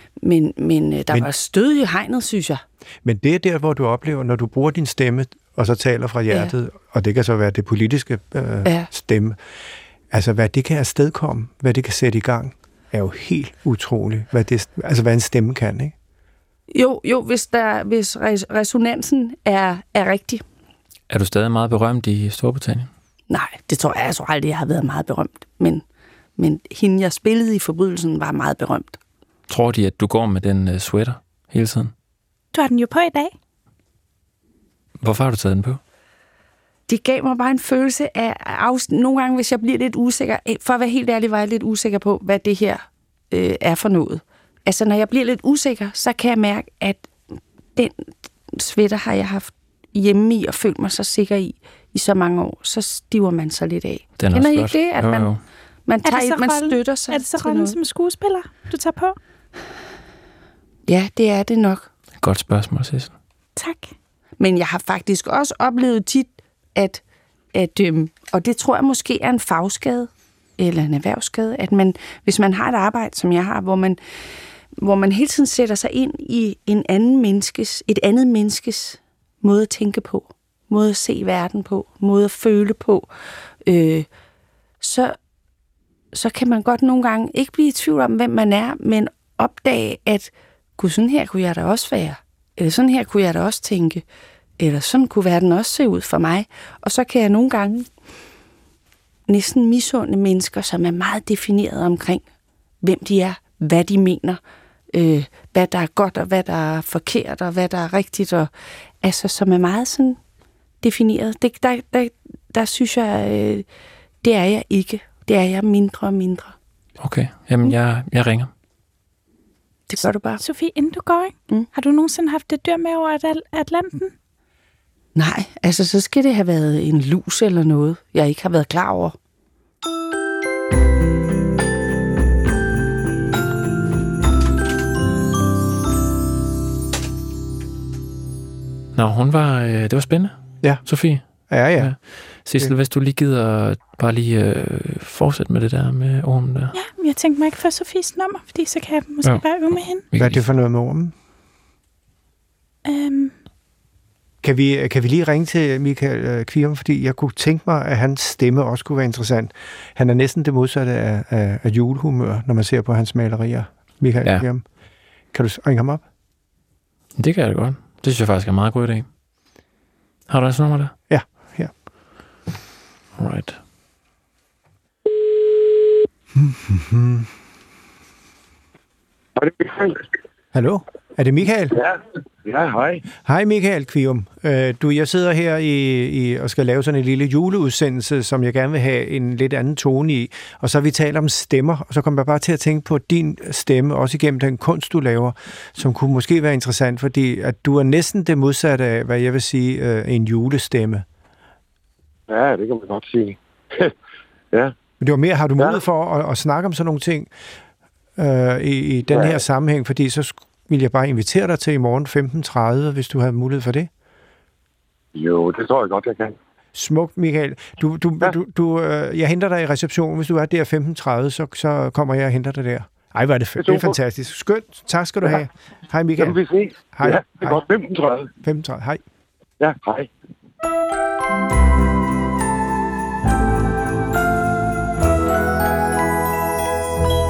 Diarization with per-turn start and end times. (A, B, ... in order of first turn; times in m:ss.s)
0:00.2-0:02.6 A
0:03.0-0:09.4 B
0:10.1-0:15.9 B
0:16.7-0:20.4 A
0:21.1-0:22.9 C
0:23.3-0:25.8 A
0:26.4-0:29.0 A
0:29.5-0:31.9 C
0:32.5-0:33.3 D
0:35.0-0:35.8 C
0:36.9-0:47.1 A
0:47.8-0:55.3 A
0:54.2-0:55.4 C
0:55.9-0:57.8 A
0:56.0-0:59.2 D
1:00.9-1:01.9 A
1:02.2-1:03.1 C
1:03.6-1:03.9 D
1:04.4-1:07.0 A
1:07.5-1:14.0 A
1:14.8-1:23.1 A
1:23.6-1:24.1 A
1:24.8-1:25.2 A
1:26.1-1:34.0 A
1:34.6-1:37.9 A
1:39.3-1:42.2 A
1:42.8-1:44.4 A
1:44.9-1:48.5 A
1:49.0-1:50.2 A
1:50.8-1:53.6 A
1:54.2-1:56.5 A
1:57.0-1:58.5 C
1:59.9-2:00.4 A
2:00.4-2:04.1 D
2:05.1-2:09.1 A
2:18.9-2:21.2 C
2:21.5-2:21.9 B
2:21.8-2:26.7 C
2:26.7-2:30.0 D
2:30.1-2:30.4 C
2:30.1-2:31.1 B
2:32.8-2:33.3 D
2:34.4-2:44.6 B
2:45.3-2:46.0 B
2:47.2-2:49.1 C
2:50.3-2:50.9 C
2:51.1-2:51.7 B
2:53.2-2:53.6 C
2:56.3-2:57.3 B
2:59.4-3:00.0 E
3:00.5-3:01.8 B
3:01.7-3:03.0 E
3:03.2-3:21.0 B
3:22.3-3:23.9 E
3:25.0-3:27.3 B
3:28.2-3:33.9 B
3:29.1-3:29.4 E
3:35.1-3:36.4 E
3:36.7-3:46.4 B
3:43.6-3:44.0 E
3:46.2-3:48.3 E
3:46.9-3:47.6 B
3:48.4-3:49.0 B
3:49.6-3:50.1 E